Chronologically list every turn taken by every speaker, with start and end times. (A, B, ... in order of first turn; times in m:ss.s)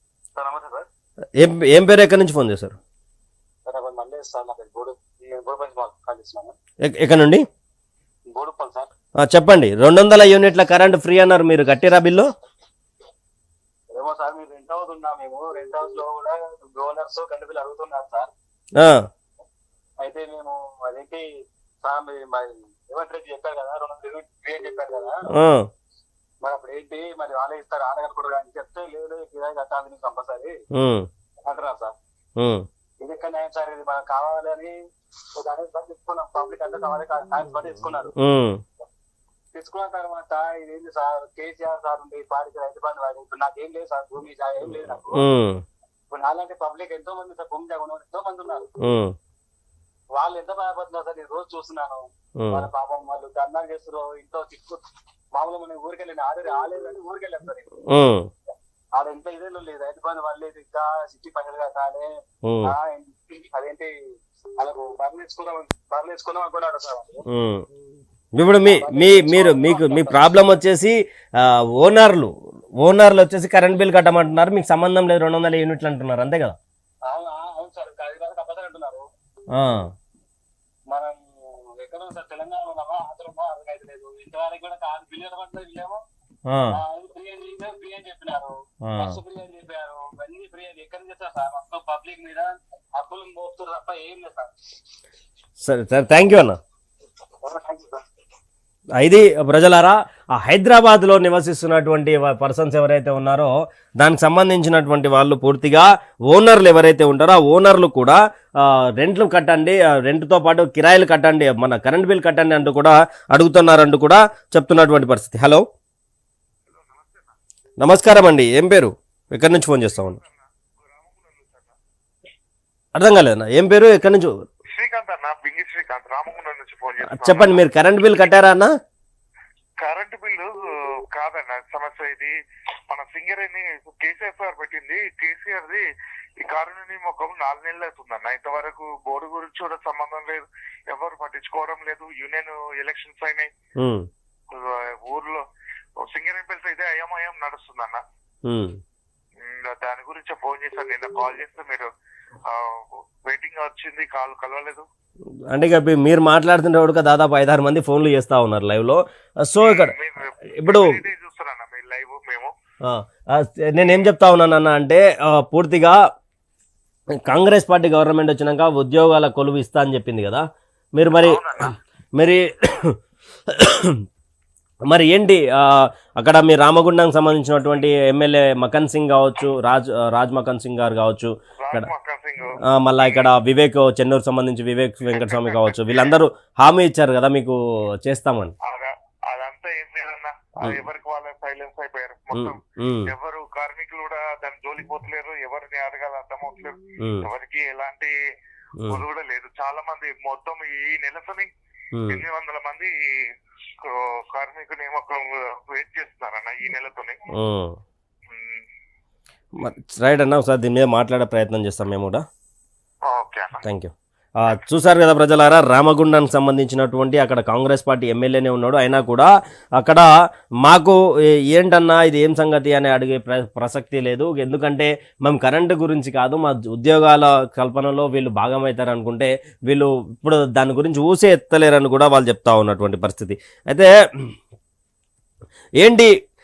0:00.4-0:00.9 A
0:01.4-0:02.8 B
0:03.7-0:06.5 A
0:06.9-0:07.4 B
0:08.3-0:08.9 A
0:09.2-0:12.3 B
0:14.0-0:18.3 A
0:20.0-0:21.2 A
0:21.8-0:25.2 A
0:25.3-0:25.7 B
0:26.4-0:30.5 A
0:30.8-0:31.1 B
0:31.4-0:31.9 A
0:32.4-0:32.6 B
0:33.0-0:34.7 A
0:35.4-0:38.1 A
0:38.2-0:38.6 B
0:39.5-0:45.2 A
0:45.1-0:45.6 B
0:46.1-0:48.7 A
0:48.8-0:49.1 B
0:50.2-0:52.0 A
0:52.4-0:52.7 B
0:52.5-0:54.8 A
0:55.3-0:57.7 A
0:57.9-0:58.3 B
0:59.0-1:02.1 A
1:02.4-1:02.7 B
1:02.6-1:03.9 A
1:04.6-1:07.2 A
1:07.3-1:07.6 B
1:08.4-1:12.3 B
1:08.6-1:10.2 A
1:12.8-1:16.6 B
1:17.1-1:19.0 A
1:19.5-1:19.9 B
1:20.9-1:26.0 A
1:26.5-1:26.8 B
1:26.7-1:34.5 A
1:28.9-1:29.2 B
1:35.6-1:36.6 B
1:37.4-1:38.0 A
1:39.0-1:55.6 B
1:56.7-1:57.3 C
1:57.8-2:00.2 B
1:59.8-2:01.8 C
2:03.0-2:04.3 B
2:04.7-2:07.7 C
2:07.0-2:08.7 B
2:09.8-2:10.5 C
2:11.1-2:12.3 C
2:12.9-2:15.8 C
2:16.4-2:23.5 C
2:23.8-2:24.1 B
2:24.5-2:25.4 C
2:26.1-2:28.0 C
2:28.4-2:28.8 B
2:29.4-2:31.9 C
2:32.5-2:34.8 C
2:35.5-2:39.9 B
2:39.6-2:42.5 C
2:40.6-2:41.0 B
2:42.8-2:46.0 B
2:43.8-2:44.0 C
2:47.3-2:50.4 B
2:51.0-2:51.6 B
2:51.2-2:51.7 C
2:52.2-2:53.0 B
2:53.5-2:54.0 B
2:54.9-3:01.9 B
3:01.6-3:03.3 C
3:02.6-3:08.5 B
3:05.1-3:06.2 C
3:08.6-3:18.1 C
3:12.3-3:13.1 B
3:18.8-3:21.5 C
3:21.9-3:22.2 B
3:22.1-3:22.9 C
3:23.8-3:27.2 C
3:27.3-3:27.8 B
3:28.3-3:28.6 C
3:29.6-3:32.2 B
3:33.0-3:33.6 C
3:33.6-3:40.0 B
3:40.6-3:41.0 B
3:41.5-3:54.3 B
3:55.8-3:56.1 B